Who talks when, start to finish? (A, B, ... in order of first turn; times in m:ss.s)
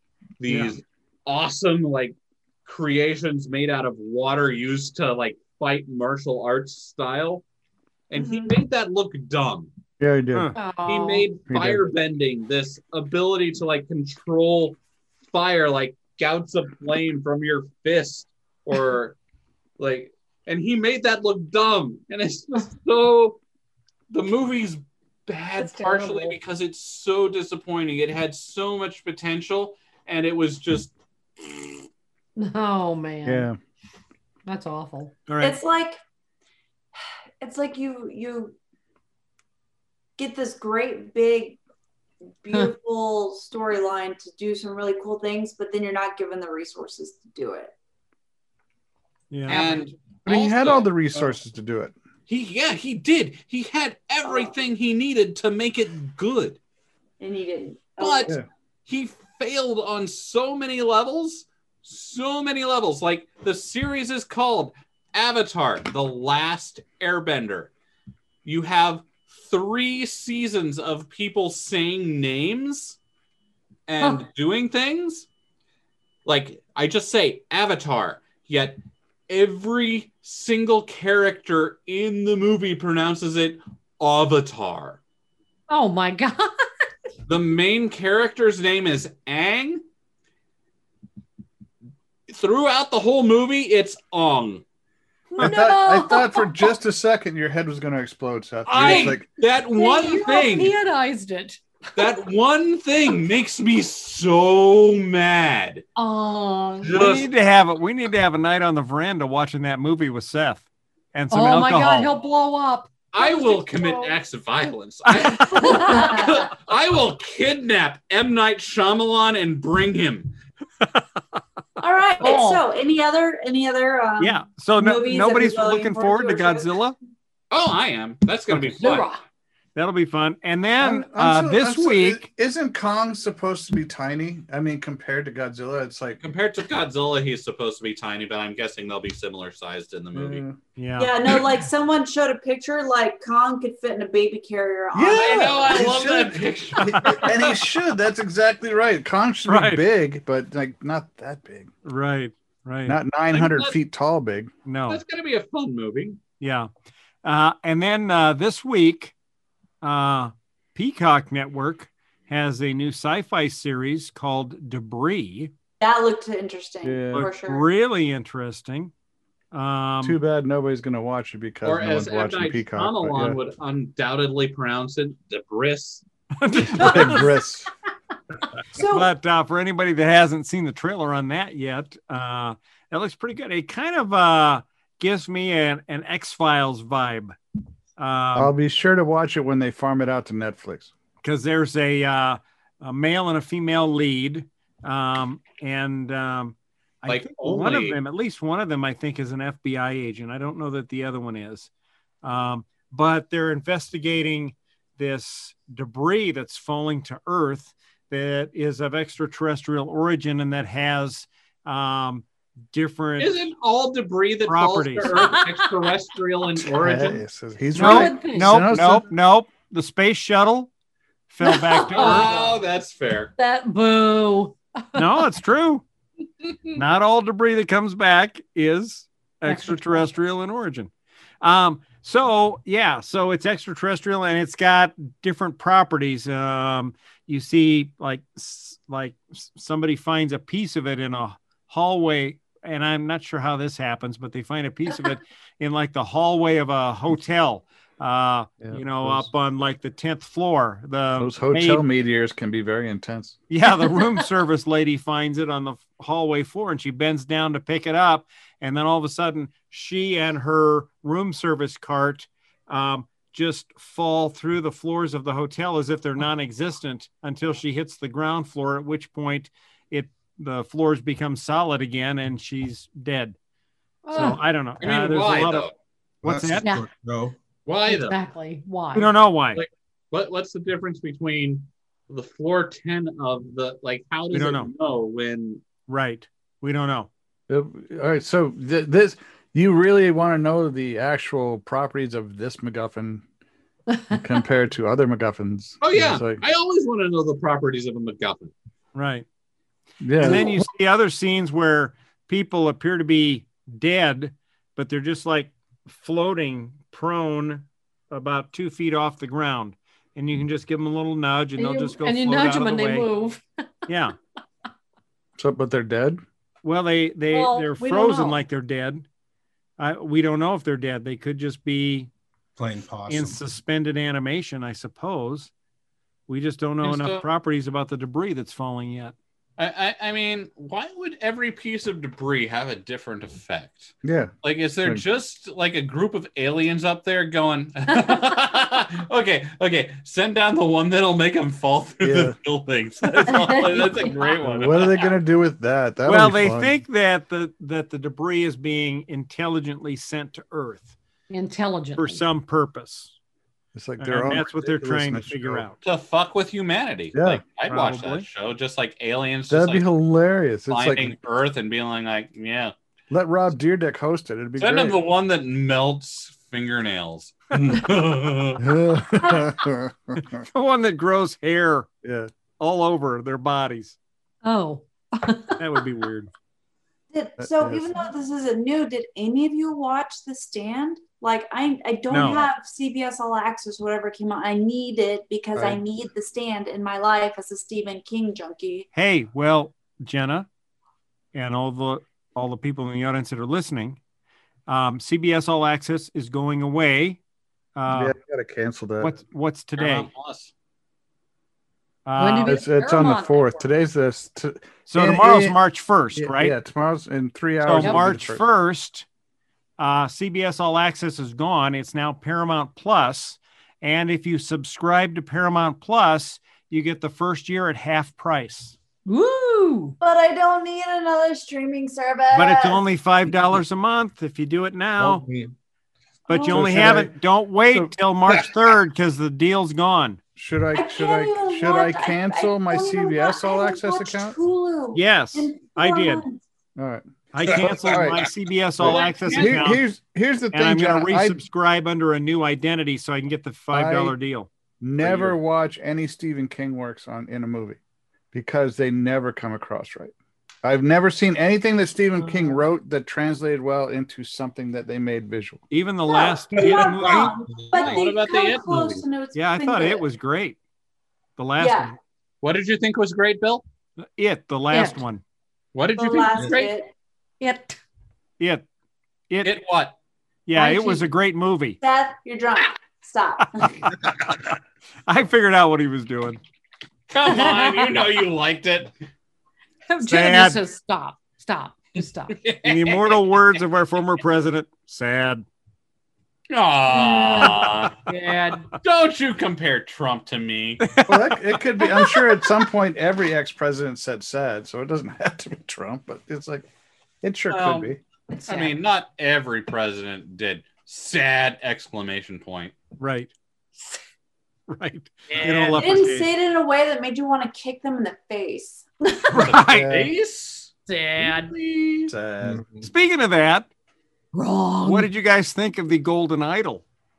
0:00.4-0:07.4 A
0:08.1-0:09.7 A
0:08.2-0:08.5 B
0:10.0-0:10.5 C
0:10.6-0:11.3 D
0:10.8-0:14.8 A
0:11.5-0:11.8 C
0:15.3-0:19.2 A
0:19.8-0:23.4 A
0:24.1-0:31.5 A
0:25.6-0:26.4 B
0:32.4-0:33.5 D
0:33.2-0:33.6 C
0:34.5-0:35.2 D
0:35.3-0:35.6 E
0:35.4-0:36.0 B
0:37.4-0:38.6 B
0:40.2-0:41.6 B
0:42.4-0:47.7 B
0:49.3-0:49.7 E
0:49.5-0:51.3 A
0:50.3-0:51.9 C
0:52.3-0:56.6 A
0:54.2-0:54.5 B
0:57.2-0:58.4 B
0:58.0-0:58.3 A
0:58.9-1:07.7 A
1:08.4-1:13.0 A
1:13.9-1:15.3 A
1:14.0-1:14.3 D
1:16.2-1:25.0 A
1:25.7-1:26.5 D
1:27.3-1:29.8 A
1:32.3-1:34.6 A
1:35.3-1:36.7 D
1:35.4-1:39.2 C
1:38.7-1:40.8 A
1:38.8-1:42.2 D
1:42.0-1:45.8 A
1:46.0-1:47.2 D
1:46.8-1:47.3 A
1:46.9-1:52.1 E
1:51.3-1:54.2 D
1:53.1-2:00.4 A
1:55.1-1:55.7 E
1:55.6-1:56.4 B
1:55.6-1:56.3 D
2:01.8-2:06.8 B
2:02.2-2:02.6 D
2:04.2-2:07.0 E
2:07.5-2:09.1 A
2:08.7-2:09.2 D
2:09.8-2:12.2 E
2:10.8-2:16.2 C
2:16.2-2:20.5 A
2:20.1-2:20.6 C
2:20.8-2:21.4 E
2:21.0-2:25.9 B
2:24.9-2:31.7 C
2:25.1-2:27.7 A
2:26.8-2:27.2 E
2:29.5-2:29.8 E
2:31.8-2:33.0 E
2:32.9-2:34.5 C
2:33.3-2:33.8 A
2:34.7-2:35.0 E
2:34.9-2:36.2 A
2:36.4-2:36.7 E
2:37.2-2:39.1 E
2:39.8-2:45.5 E
2:45.8-2:47.7 B
2:46.8-2:47.3 C
2:47.1-2:48.9 E
2:49.5-2:50.2 E
2:50.0-2:53.4 C
2:51.6-2:56.0 A
2:56.4-2:57.3 E
2:56.7-2:57.7 C
2:58.8-2:59.1 B
2:58.8-3:07.4 E
3:08.0-3:08.5 E
3:08.4-3:10.9 C
3:11.2-3:21.7 E
3:17.1-3:18.0 A
3:22.2-3:33.5 E
3:33.2-3:37.2 A
3:34.5-3:35.1 E
3:35.0-3:35.8 D
3:36.6-3:39.1 C
3:37.8-3:38.7 D
3:37.8-3:40.7 E
3:41.3-3:42.5 E
3:41.4-3:42.6 D
3:42.0-3:43.3 A
3:43.4-3:45.3 D
3:45.0-3:45.8 E
3:46.4-3:46.8 A
3:46.8-4:11.8 E
3:49.4-3:50.1 D
4:08.6-4:09.3 C
4:11.2-4:13.4 C
4:13.5-4:33.4 E
4:13.7-4:14.3 D
4:34.0-4:34.4 D
4:34.1-4:35.7 E
4:34.8-4:35.7 A
4:36.2-4:37.4 F
4:36.2-4:36.7 E
4:36.6-4:36.9 D
4:37.7-4:38.2 A
4:37.9-4:39.2 D
4:38.9-4:39.6 E
4:39.6-4:45.6 A
4:44.3-4:44.7 E
4:45.9-4:47.1 E
4:47.5-4:53.2 C
4:53.9-4:54.4 D
4:54.1-4:56.4 C
4:55.8-4:58.5 A
4:59.0-4:59.2 E
5:00.0-5:00.7 C
5:00.2-5:13.1 E
5:11.6-5:13.9 D
5:13.9-5:14.2 E
5:15.4-5:16.2 C
5:16.6-5:19.0 E
5:17.3-5:18.4 D
5:19.8-5:22.1 E
5:22.6-5:23.4 F
5:23.1-5:25.5 E
5:26.3-5:29.2 E
5:26.8-5:27.3 A
5:29.6-5:45.1 A
5:34.0-5:34.3 C
5:42.0-5:42.4 C
5:43.1-5:44.4 D
5:44.4-5:46.8 C
5:46.1-5:50.9 E
5:51.3-5:52.2 D
5:52.0-5:53.1 E
5:53.8-5:55.7 C
5:54.0-5:55.8 E
5:55.8-5:59.9 A
5:57.1-5:57.4 C
5:57.7-5:58.3 E
5:59.5-6:01.2 C
6:00.7-6:02.7 A
6:03.1-6:05.0 C
6:04.6-6:08.6 A
6:08.6-6:10.4 C
6:10.5-6:11.9 E
6:12.0-6:12.3 C
6:12.6-6:14.0 E
6:14.4-6:15.8 D
6:15.6-6:16.3 E
6:17.1-6:28.9 B
6:17.4-6:18.0 C
6:22.1-6:22.5 E
6:25.6-6:25.8 C
6:29.0-6:30.5 E
6:31.3-6:34.0 E
6:34.7-6:37.2 E
6:37.8-6:38.2 E
6:37.9-6:39.1 C
6:39.0-6:40.1 E
6:39.8-6:40.5 A
6:42.1-6:42.6 E
6:42.2-6:43.7 D
6:42.4-6:45.6 C
6:44.9-6:46.6 E
6:46.2-6:48.4 C
6:47.6-6:49.1 E
6:47.8-6:48.0 D
6:49.8-6:58.8 E
6:59.0-7:00.0 D
7:00.0-7:02.8 B
7:02.3-7:05.2 E
7:05.0-7:05.5 F
7:06.3-7:10.2 E
7:06.3-7:07.0 B
7:06.5-7:07.2 C
7:08.3-7:08.8 F
7:10.4-7:14.4 C
7:10.8-7:16.4 B
7:14.9-7:16.2 E
7:16.8-7:18.3 C
7:17.3-7:19.8 E
7:17.4-7:18.3 F
7:18.8-7:21.4 C
7:18.8-7:19.8 A
7:20.5-7:24.5 E
7:23.7-7:24.2 C
7:24.8-7:27.8 C
7:25.0-7:25.3 F
7:28.3-7:35.6 C
7:35.7-7:37.4 E
7:36.1-7:40.0 B
7:36.5-7:38.0 F
7:37.7-7:39.0 A
7:39.3-7:40.6 E
7:41.4-7:42.0 E
7:41.6-7:41.9 B
7:42.4-7:43.6 A
7:44.2-7:45.2 E
7:44.7-7:45.0 D
7:45.7-7:46.7 A
7:46.0-7:46.9 B
7:47.4-7:47.8 D
7:48.4-7:48.6 E
7:49.3-7:49.6 E
7:49.4-7:50.0 A
7:50.5-7:51.8 E
7:50.6-7:51.0 B
7:50.6-7:51.0 D
7:51.8-7:53.8 B
7:55.1-7:56.4 E
7:57.1-7:58.9 A
7:57.2-7:58.0 D
7:59.9-8:02.4 D
8:00.0-8:00.6 E
8:02.4-8:03.6 A
8:02.6-8:05.4 E
8:06.5-8:08.0 A
8:06.9-8:08.7 D
8:08.8-8:10.8 A
8:10.8-8:11.4 E
8:11.1-8:16.7 C
8:17.2-8:18.0 C
8:17.5-8:17.9 A
8:18.3-8:18.8 D
8:18.5-8:22.8 A
8:23.0-8:23.3 E
8:24.7-8:26.3 E
8:25.3-8:25.8 D
8:25.3-8:25.8 A
8:25.8-8:29.0 B
8:29.3-8:30.0 E
8:29.4-8:32.1 A
8:29.7-8:30.1 C
8:30.9-8:31.6 D
8:32.1-8:32.6 C
8:32.4-8:32.9 F
8:32.8-8:33.7 E
8:34.3-8:35.1 D
8:34.8-8:36.8 E